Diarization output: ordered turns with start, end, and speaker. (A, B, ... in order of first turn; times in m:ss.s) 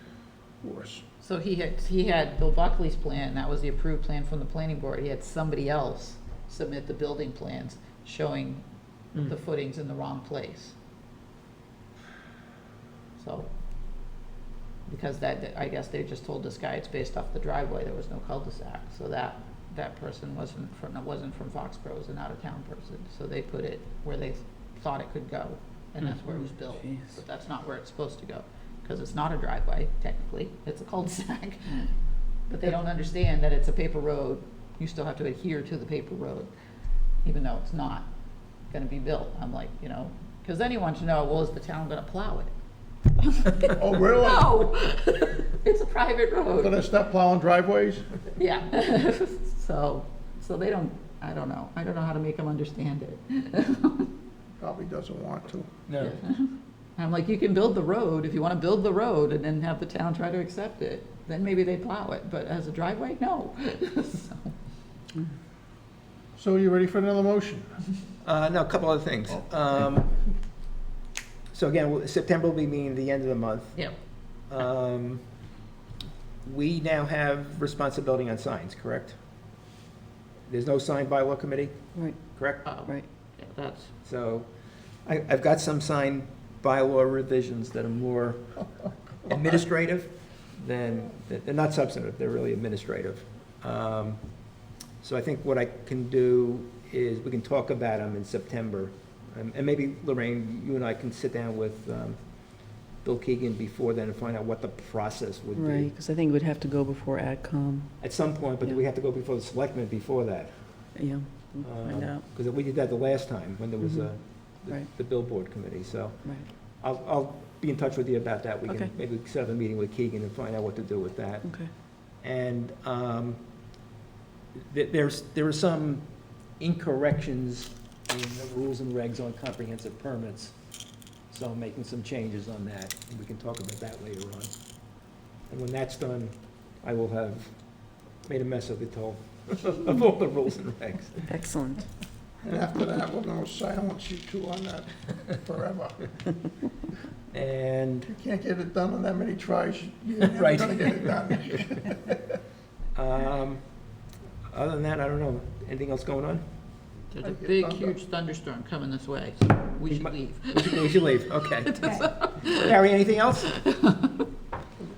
0:00.6-0:01.0 A
0:01.2-0:10.8 B
0:13.2-0:13.5 B
0:14.9-0:31.9 B
0:26.4-0:27.1 C
0:32.5-0:36.5 B
0:37.2-0:38.1 B
0:38.7-0:42.5 B
0:43.2-0:46.8 B
0:43.8-0:44.6 A
0:46.6-0:48.0 A
0:48.4-0:54.1 B
0:54.6-0:55.7 A
0:55.9-0:56.2 D
0:56.0-1:04.5 B
1:06.4-1:07.7 A
1:08.2-1:10.1 D
1:11.5-1:13.8 D
1:14.4-1:15.2 D
1:16.4-1:19.2 D
1:20.5-1:22.6 D
1:21.9-1:23.0 C
1:22.6-1:23.9 B
1:24.0-1:28.6 D
1:29.2-1:34.4 D
1:35.0-1:45.9 D
1:45.5-1:48.8 C
1:48.0-1:50.9 D
1:50.9-1:52.2 C
1:51.6-2:03.4 D
1:53.8-1:54.9 C
1:56.2-1:56.5 C
1:58.7-1:58.9 C
2:01.4-2:01.7 C
2:04.7-2:10.7 D
2:11.3-2:21.4 D
2:21.2-2:21.9 C
2:22.4-2:26.0 A
2:27.3-2:28.1 D
2:28.1-2:32.2 A
2:30.2-2:31.3 D
2:32.9-2:33.8 D
2:34.5-2:36.4 D
2:37.1-2:42.8 B
2:37.2-2:38.0 A
2:39.9-2:41.7 D
2:42.5-2:43.5 D
2:43.4-2:44.3 B